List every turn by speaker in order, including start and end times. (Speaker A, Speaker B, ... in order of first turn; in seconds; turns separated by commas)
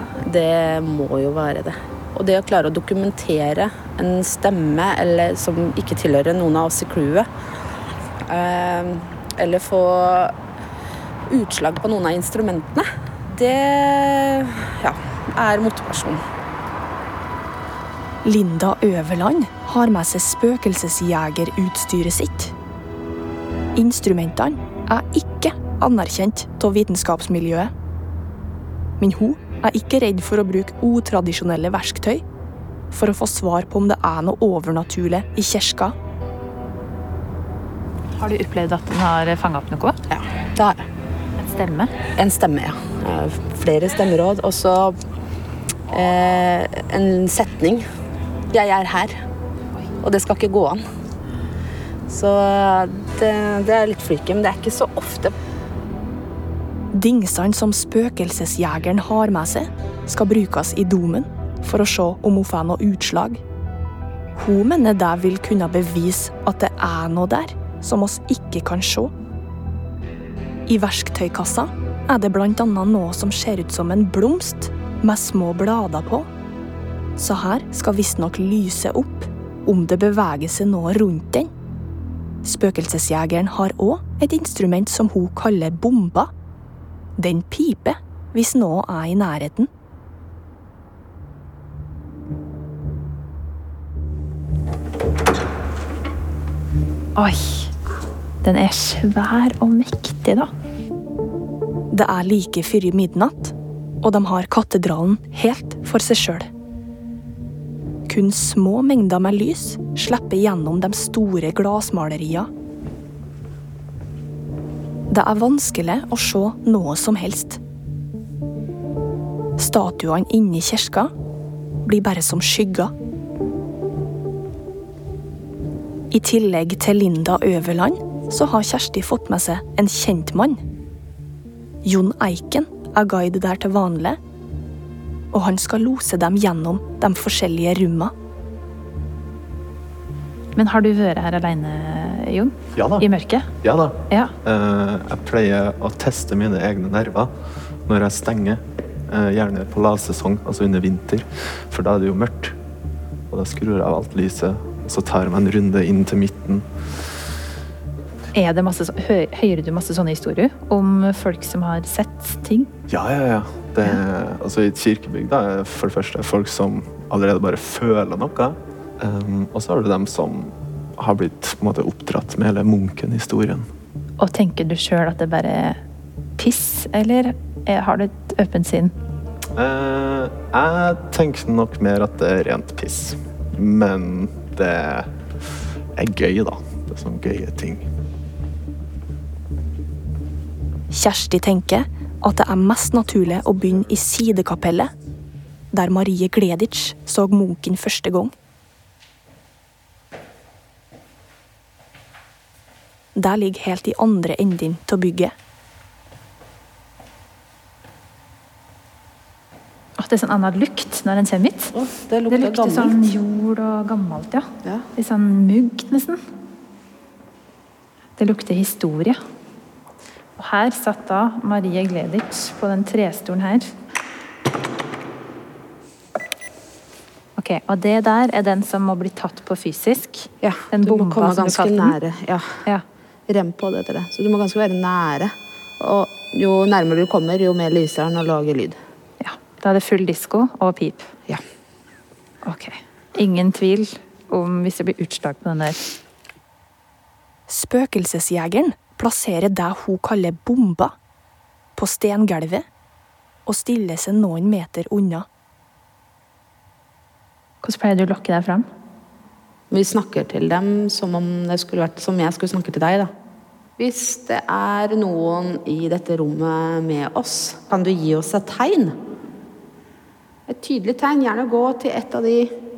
Speaker A: 0.2-7.3, Speaker A: 8.3-10.3, Speaker A: 11.3-16.2, Speaker B: 18.2-22.5, Speaker B: 23.7-27.7, Speaker B: 29.0-32.2, Speaker B: 32.9-35.9, Speaker C: 38.1-40.0, Speaker A: 40.1-40.9, Speaker C: 41.4-42.0, Speaker A: 42.1-45.0, Speaker A: 45.9-47.8, Speaker A: 48.5-49.2, Speaker A: 50.0-50.8, Speaker A: 52.1-55.3, Speaker B: 56.9-63.4, Speaker B: 64.3-69.1, Speaker B: 70.7-76.3, Speaker B: 77.2-81.5, Speaker B: 82.4-86.3, Speaker B: 87.2-89.7, Speaker C: 97.2-97.7, Speaker C: 98.4-100.5, Speaker B: 101.9-106.5, Speaker B: 108.1-112.5, Speaker B: 115.1-117.6, Speaker B: 119.6-121.1, Speaker B: 121.8-122.9, Speaker B: 126.1-130.6, Speaker B: 131.8-134.2, Speaker B: 135.3-138.1, Speaker C: 140.5-143.5, Speaker D: 142.7-143.1, Speaker D: 143.6-147.3, Speaker C: 144.1-144.3, Speaker D: 147.8-152.5, Speaker D: 153.3-156.7, Speaker C: 158.3-162.7, Speaker D: 162.9-173.7, Speaker C: 174.2-175.8, Speaker C: 176.4-178.9, Speaker D: 179.6-185.1, Speaker D: 185.9-187.9, Speaker B: 190.9-194.9, Speaker B: 195.7-198.3, Speaker B: 203.1-205.3, Speaker C: 210.0-211.7, Speaker A: 211.7-213.0, Speaker C: 212.3-216.2, Speaker C: 218.2-219.2, Speaker C: 220.4-223.7, Speaker C: 227.4-232.0, Speaker A: 230.4-232.6, Speaker A: 233.3-238.8, Speaker C: 239.2-241.1, Speaker C: 242.4-245.8, Speaker B: 247.5-250.9, Speaker B: 251.8-252.7, Speaker B: 253.4-255.2, Speaker C: 257.6-258.6, Speaker A: 259.7-263.1, Speaker A: 263.8-268.9, Speaker A: 270.5-272.5